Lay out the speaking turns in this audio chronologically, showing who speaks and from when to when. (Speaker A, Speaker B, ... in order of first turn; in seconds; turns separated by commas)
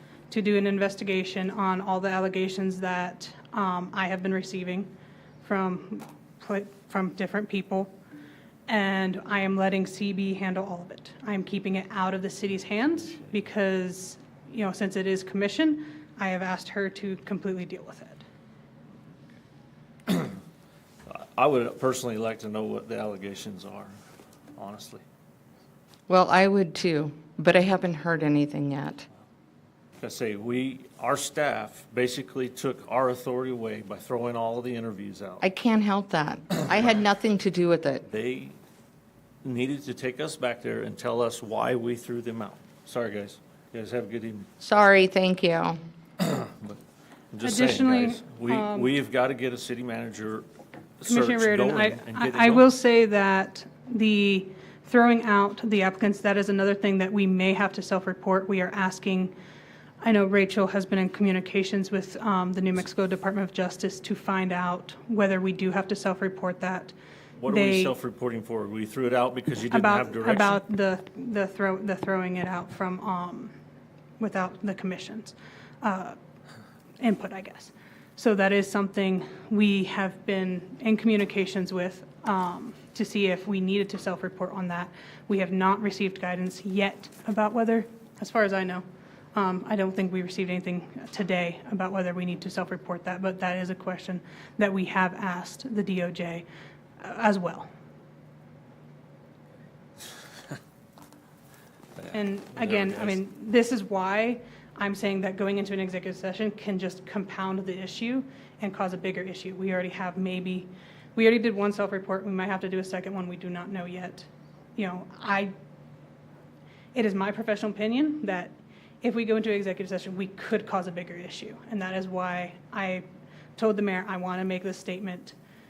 Speaker A: 0.3-4.9, Speaker A: 5.4-7.9, Speaker A: 8.7-18.2, Speaker B: 20.1-20.3, Speaker B: 21.1-23.9, Speaker B: 24.6-25.0, Speaker C: 26.1-29.1, Speaker B: 30.0-35.4, Speaker C: 35.4-38.0, Speaker B: 38.1-38.6, Speaker B: 39.4-44.5, Speaker C: 44.6-45.8, Speaker B: 46.2-46.8, Speaker B: 47.3-50.5, Speaker A: 47.4-48.9, Speaker B: 51.0-52.7, Speaker A: 51.0-59.4, Speaker A: 60.0-66.9, Speaker B: 67.4-70.6, Speaker A: 67.5-67.9, Speaker A: 69.7-73.5, Speaker A: 74.2-76.2, Speaker A: 77.0-96.5, Speaker A: 97.0-97.7, Speaker B: 102.0-103.2, Speaker A: 102.1-115.5, Speaker A: 116.9-123.0, Speaker A: 123.6-125.4